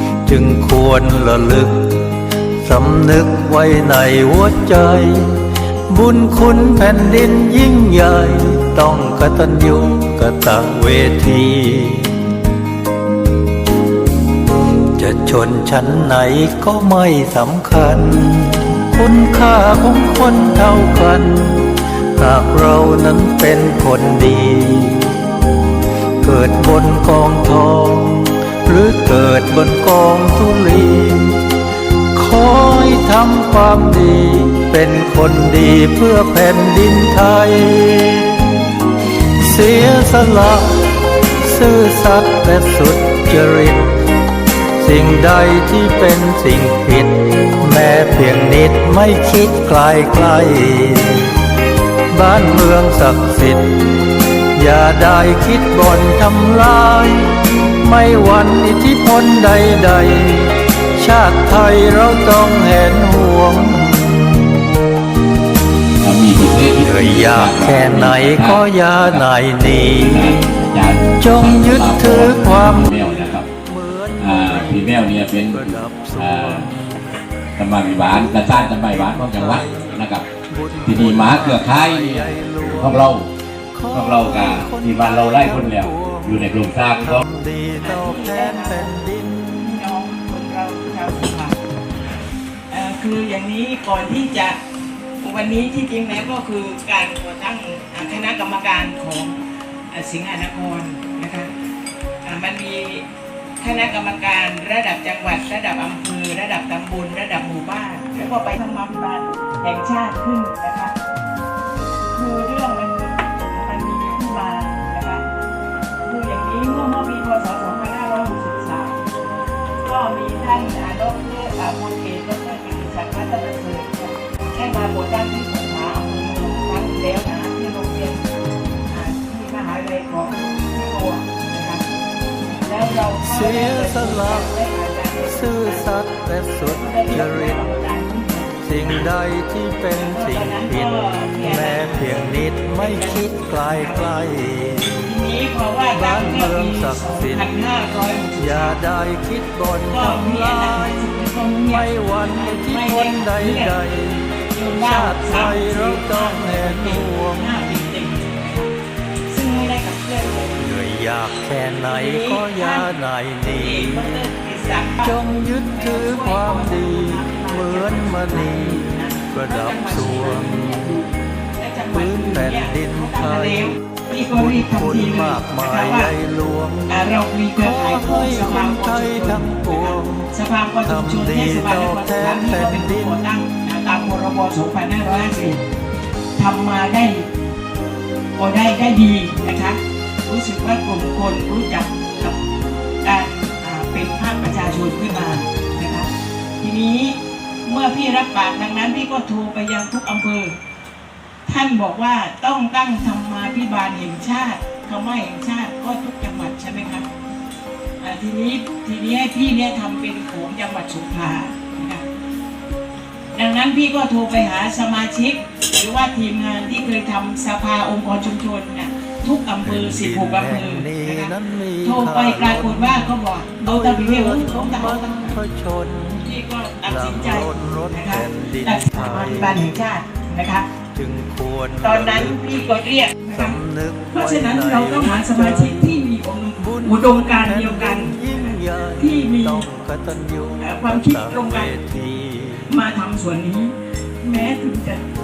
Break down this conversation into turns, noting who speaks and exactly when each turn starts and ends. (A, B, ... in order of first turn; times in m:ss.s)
0:00.2-0:12.2 A
0:14.9-0:25.3 A
0:26.2-0:31.4 A
0:32.1-0:38.6 A
0:39.4-0:44.0 A
0:44.8-0:51.4 A
0:52.1-0:53.9 A
0:54.5-1:04.6 A
1:06.0-1:09.2 B
1:06.8-1:10.5 A
1:09.8-1:13.4 B
1:11.2-1:17.0 A
1:14.2-1:16.7 B
1:17.6-1:20.2 B
1:17.9-1:23.2 A
1:20.9-1:23.3 B
1:23.7-1:29.8 A
1:23.9-1:27.2 B
1:27.8-1:29.0 C
1:29.6-1:31.6 C
1:32.7-1:34.6 C
1:35.2-1:39.4 C
1:39.9-1:41.5 C
1:42.2-1:43.0 C
1:43.6-1:50.9 C
1:52.1-1:55.2 C
1:56.0-1:59.0 C
1:59.8-2:08.2 C
2:08.9-2:11.8 C
2:12.4-2:15.9 C
2:13.2-2:14.5 A
2:15.3-2:17.6 A
2:16.6-2:18.5 C
2:18.6-2:20.9 A
2:19.9-2:24.1 C
2:21.4-2:25.0 A
2:25.0-2:28.8 C
2:25.9-2:27.6 A
2:28.4-2:31.0 A
2:29.9-2:33.8 C
2:31.7-2:37.6 A
2:34.5-2:38.7 C
2:39.3-2:40.5 C
2:40.6-2:44.2 A
2:41.9-2:42.9 C
2:43.5-2:45.2 C
2:45.0-2:50.8 A
2:45.7-2:56.1 C
2:51.9-2:57.0 A
2:56.9-3:05.6 C
2:57.6-3:00.3 A
3:00.8-3:03.2 A
3:06.4-3:07.3 C
3:08.4-3:12.4 C
3:13.0-3:16.1 C
3:16.6-3:20.5 C
3:21.4-3:27.0 C
3:28.0-3:32.0 C
3:33.3-3:41.3 C
3:39.6-3:43.1 A
3:41.8-3:45.4 C
3:43.6-3:46.3 A
3:46.2-3:50.7 C
3:46.8-3:49.7 A
3:50.9-3:52.4 A
3:51.8-3:53.6 C
3:53.3-3:55.9 A
3:54.1-3:59.6 C
3:56.6-4:02.7 A
4:00.6-4:01.7 C
4:02.7-4:05.0 C